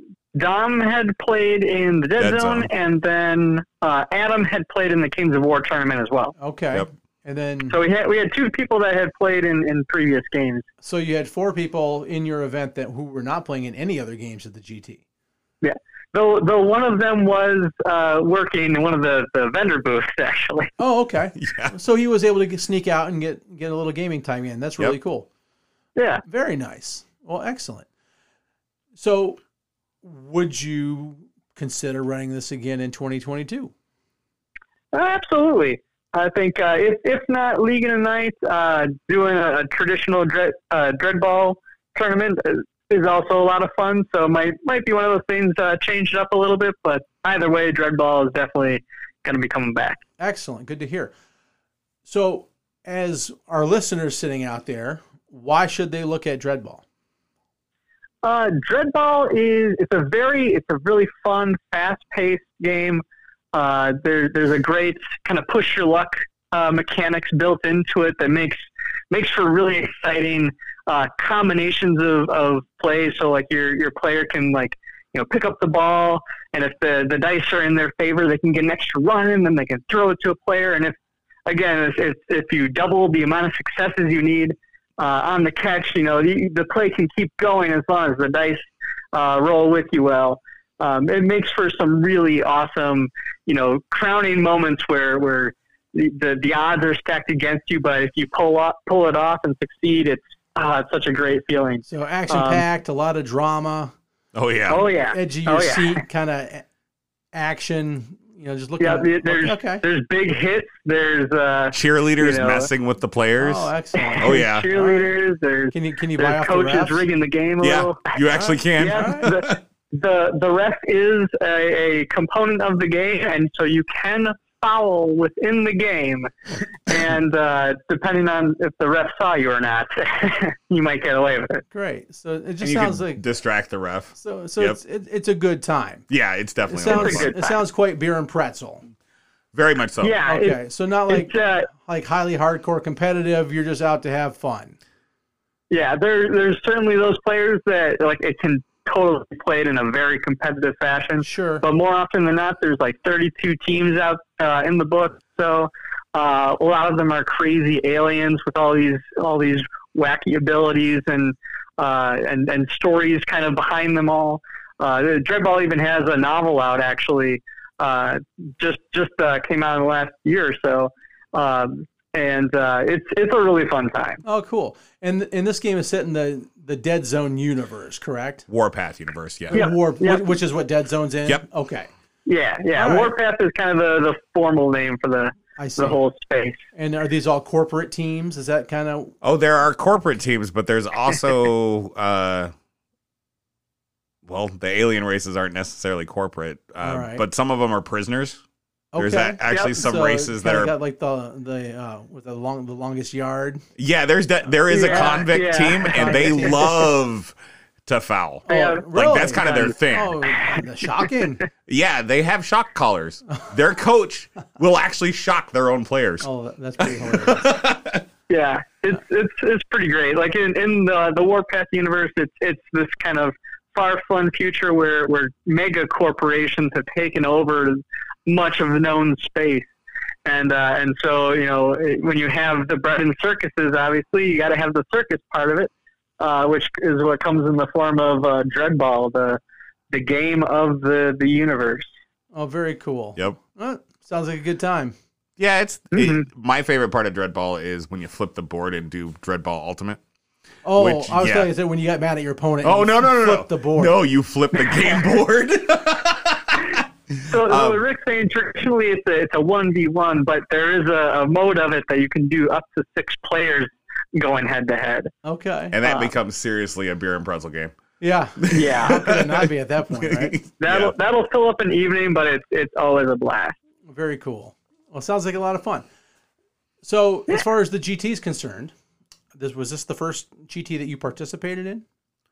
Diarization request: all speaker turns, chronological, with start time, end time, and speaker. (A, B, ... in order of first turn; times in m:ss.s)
0:00.3-0:06.3 A
0:02.2-0:02.7 B
0:06.4-0:07.8 C
0:07.7-0:10.6 A
0:10.8-0:15.0 C
0:15.6-0:20.7 A
0:20.8-0:25.3 C
0:21.4-0:21.7 B
0:26.0-0:26.2 A
0:26.2-0:27.9 C
0:29.0-0:29.4 C
0:30.0-0:33.7 C
0:34.9-0:50.0 A
0:50.2-0:51.1 C
0:52.0-0:56.8 C
0:58.2-1:08.6 A
1:09.1-1:21.0 A
1:21.5-1:42.6 A
1:41.8-1:43.9 C
1:44.3-1:44.9 B
1:44.7-1:46.0 A
1:45.1-1:46.6 C
1:47.3-1:49.8 C
1:48.8-1:52.7 A
1:51.7-1:54.7 B
1:53.4-1:55.1 C
1:54.2-2:06.3 A
1:55.7-1:57.1 C
1:57.6-1:59.6 B
1:58.3-1:59.3 C
2:06.8-2:11.6 A
2:11.7-2:13.2 C
2:12.6-2:14.8 B
2:14.2-2:16.1 C
2:16.1-2:17.4 B
2:16.7-2:18.8 C
2:16.8-2:17.6 A
2:19.5-2:20.2 B
2:20.0-2:21.7 A
2:20.2-2:24.8 C
2:25.7-2:54.2 A
2:31.2-2:31.6 C
2:54.2-2:58.5 C
2:58.5-2:59.6 B
2:59.5-3:01.9 C
2:59.5-3:00.3 A
3:02.2-3:06.6 A
3:02.8-3:03.1 C
3:05.6-3:06.0 C
3:06.7-3:09.1 C
3:09.2-3:12.5 B
3:14.2-3:18.4 B
3:16.8-3:17.2 C
3:18.9-3:23.6 C
3:19.0-3:20.7 B
3:19.5-3:19.8 A
3:23.8-3:27.3 B
3:24.7-3:26.7 A
3:24.7-3:25.2 C
3:25.9-3:26.8 C
3:27.8-3:30.2 B
3:28.5-3:31.4 C
3:28.5-3:29.8 A
3:31.7-3:36.3 B
3:36.2-3:37.7 C
3:36.8-3:38.0 B
3:38.3-3:49.7 A
3:50.2-3:59.4 A
3:59.9-4:01.9 A
4:02.3-4:04.9 C
4:05.4-4:10.0 B
4:05.9-4:06.2 A
4:10.6-4:14.0 C
4:10.8-4:11.5 B
4:12.6-4:17.8 B
4:16.7-4:25.1 A
4:25.2-4:25.8 C
4:25.7-4:27.7 B
4:25.8-4:26.1 A
4:28.0-4:30.4 C
4:28.4-4:30.9 B
4:28.5-4:29.0 A
4:30.6-4:33.5 A
4:33.9-4:35.8 C
4:36.8-4:38.7 C
4:39.3-4:41.8 C